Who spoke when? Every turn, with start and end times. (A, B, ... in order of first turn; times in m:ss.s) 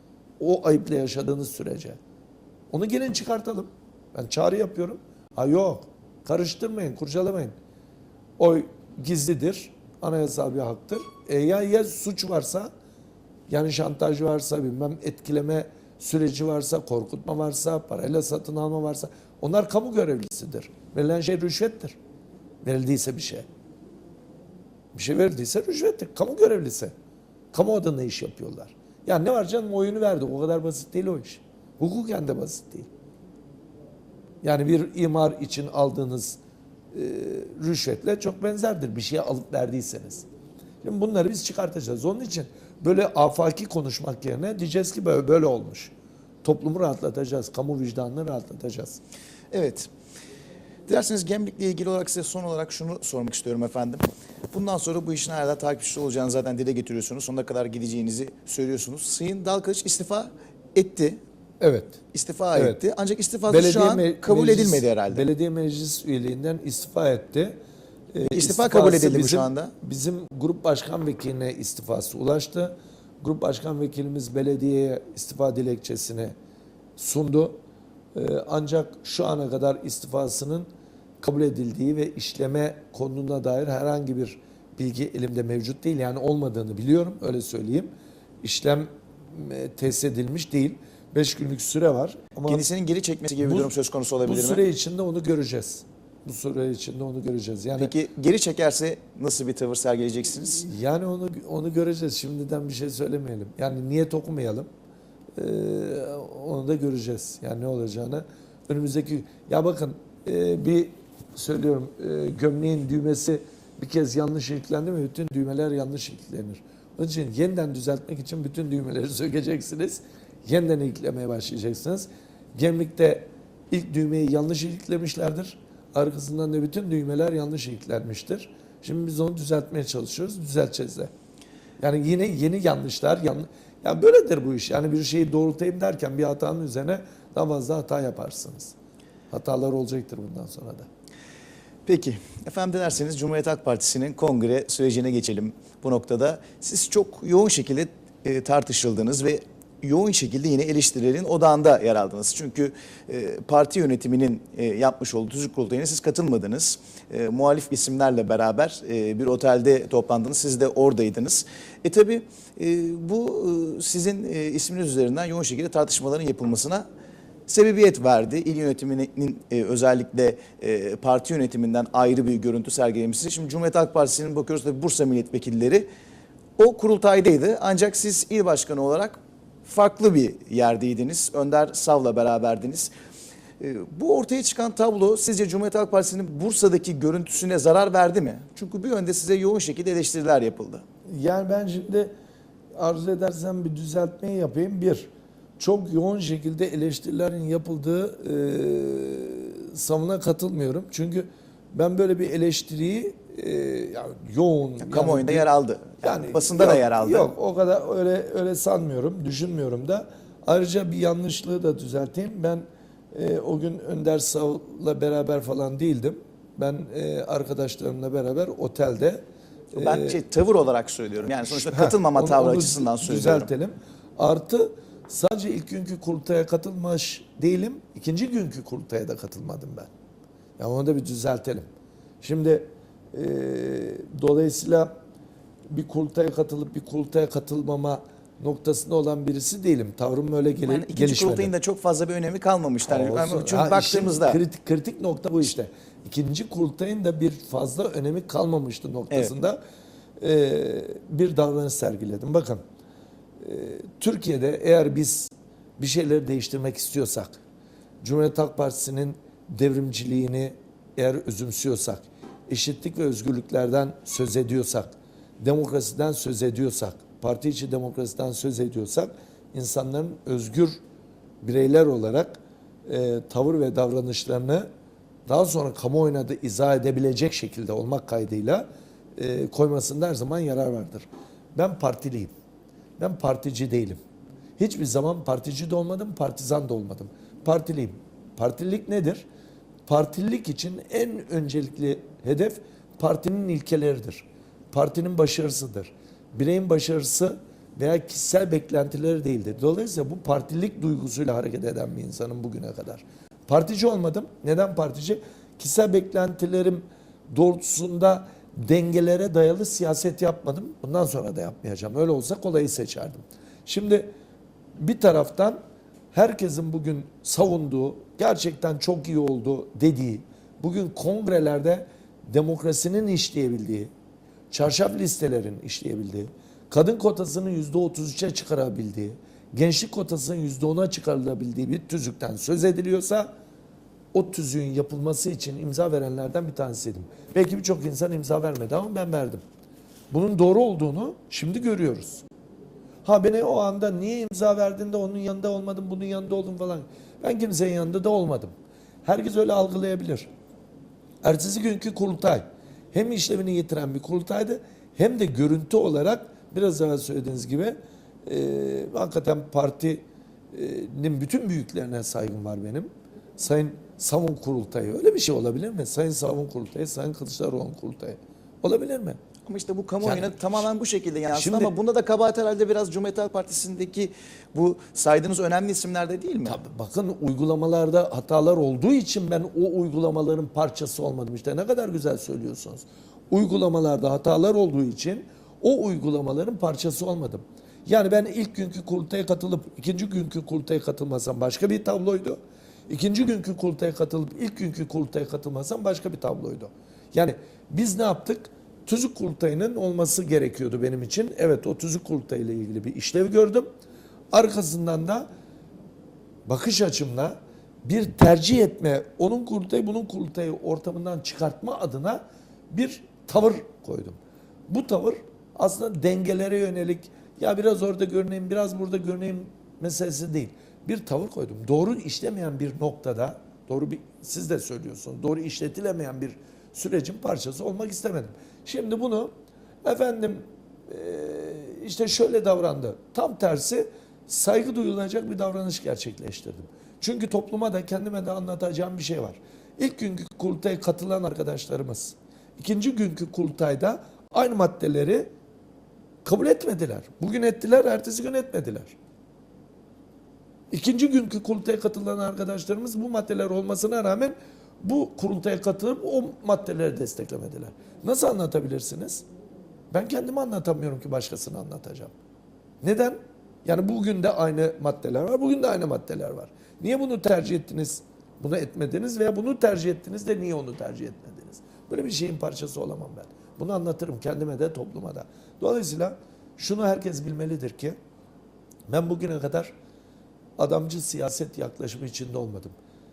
0:00.4-0:02.0 A
0:02.7-0:07.5 A
0:08.4-0:12.7 A
0:13.5-0:22.0 A
0:22.6-0:23.5 A
0:24.9-0:26.9 A
0:27.5-0:32.9 A
0:34.4-0:36.4 A
0:36.9-0:40.3 A
0:40.8-0:45.9 A
0:46.4-0:49.0 A
0:49.5-0:49.9 B
0:50.9-1:01.2 B
1:01.6-1:02.0 A
1:02.1-1:05.3 B
1:02.5-1:02.8 A
1:03.5-1:07.6 A
1:08.1-1:16.3 A
1:08.3-1:09.7 B
1:17.0-1:17.6 A
1:18.1-1:20.7 A
1:21.2-1:27.9 A
1:28.4-1:32.6 A
1:32.5-1:34.6 B
1:33.4-1:33.7 A
1:34.2-1:37.9 A
1:37.8-1:40.6 B
1:40.6-1:44.7 A
1:45.4-2:11.1 A
2:11.8-2:18.7 A
2:19.3-2:20.9 A
2:21.8-2:46.8 B
2:47.5-2:55.9 B
2:56.6-3:02.9 B
3:03.6-3:10.8 B
3:11.1-3:12.1 A
3:12.8-3:25.5 A
3:24.8-3:27.3 B
3:26.0-3:40.2 A
3:39.7-3:43.5 B
3:41.5-3:49.9 A
3:50.6-3:51.6 A
3:52.2-3:54.9 A
3:55.7-4:01.5 A
4:00.6-4:04.4 B
4:02.9-4:09.6 A
4:10.2-4:12.6 A
4:13.4-4:17.4 A
4:18.0-4:30.8 A
4:31.4-4:34.7 A
4:35.3-4:42.3 A
4:43.0-4:44.0 A
4:44.6-4:49.2 A
4:49.9-5:14.1 A
5:14.8-5:15.6 A
5:16.1-5:23.9 A
5:24.5-5:33.3 A
5:34.1-5:39.4 A
5:40.1-5:42.2 A
5:43.0-5:48.5 A
5:49.0-5:50.3 A
5:51.2-6:09.2 A
6:09.4-6:16.6 B
6:10.0-6:10.7 A
6:11.3-6:11.7 A
6:16.4-6:32.4 A
6:32.9-6:43.7 A
6:44.3-6:45.3 A
6:46.5-6:54.2 A
6:54.7-7:09.3 A
7:09.8-7:25.3 A
7:26.2-7:29.0 A
7:30.7-7:39.2 A
7:39.9-7:42.1 A
7:42.8-7:58.0 A
7:58.9-7:59.7 A
8:00.6-8:02.8 A